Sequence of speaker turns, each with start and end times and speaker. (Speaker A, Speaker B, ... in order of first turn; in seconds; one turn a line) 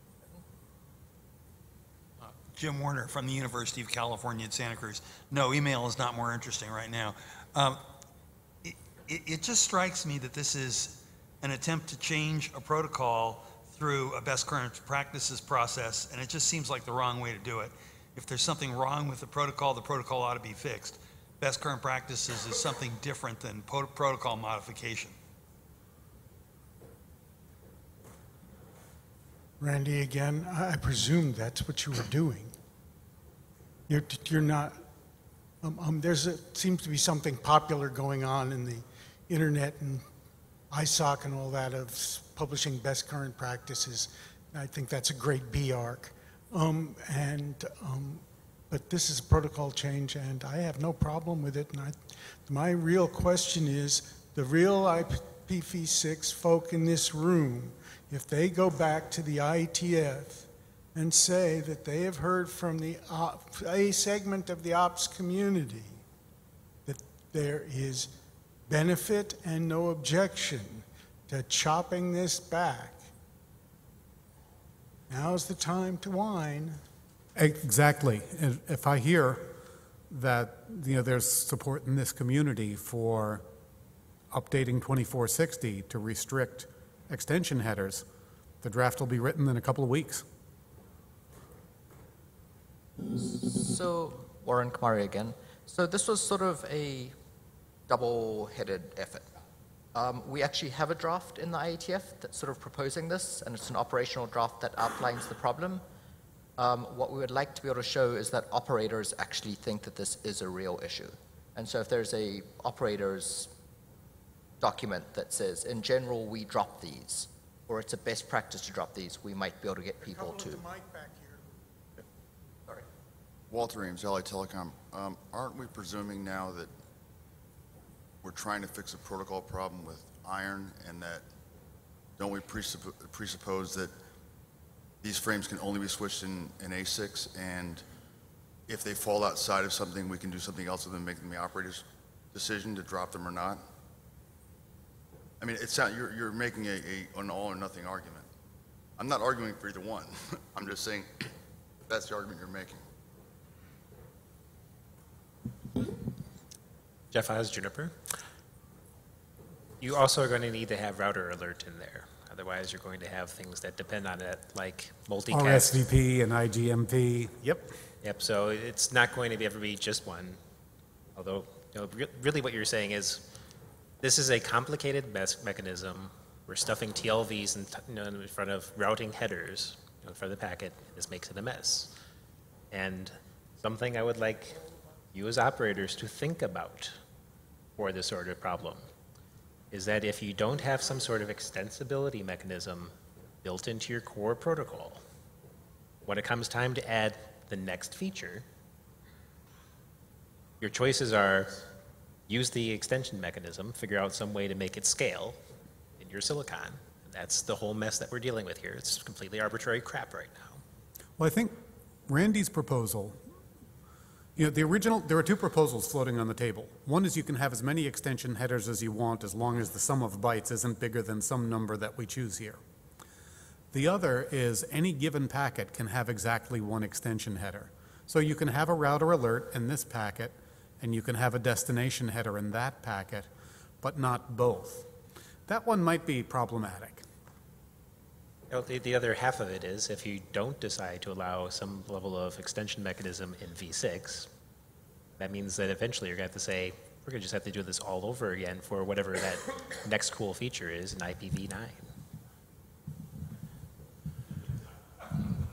Speaker A: 2.2-7.8
Speaker A: 8.6-25.2
Speaker B: 29.6-32.5
Speaker B: 33.9-34.8
Speaker B: 35.6-40.0
Speaker B: 40.7-66.0
Speaker B: 66.8-68.1
Speaker B: 68.7-73.1
Speaker B: 75.1-76.8
Speaker C: 77.3-79.5
Speaker C: 80.1-83.4
Speaker C: 84.3-88.0
Speaker C: 88.6-90.2
Speaker D: 93.1-97.1
Speaker D: 97.9-99.3
Speaker D: 99.9-105.8
Speaker D: 106.6-113.5
Speaker D: 114.6-120.6
Speaker B: 120.0-121.6
Speaker E: 123.5-126.7
Speaker E: 128.2-131.2
Speaker E: 132.2-133.9
Speaker E: 135.0-137.8
Speaker E: 138.7-143.6
Speaker E: 145.4-148.3
Speaker E: 149.0-151.1
Speaker E: 151.9-152.8
Speaker F: 157.1-157.9
Speaker F: 159.8-165.8
Speaker C: 165.3-167.7
Speaker F: 168.0-170.4
Speaker F: 171.1-173.3
Speaker F: 174.0-181.9
Speaker F: 182.7-186.9
Speaker F: 187.8-188.8
Speaker F: 189.7-195.0
Speaker F: 196.1-198.4
Speaker F: 200.6-201.6
Speaker F: 202.3-205.4
Speaker F: 206.0-210.6
Speaker C: 211.2-213.2
Speaker C: 214.3-222.6
Speaker C: 223.7-233.3
Speaker C: 233.8-234.9
Speaker C: 235.5-237.1
Speaker F: 238.5-244.3
Speaker F: 245.2-251.8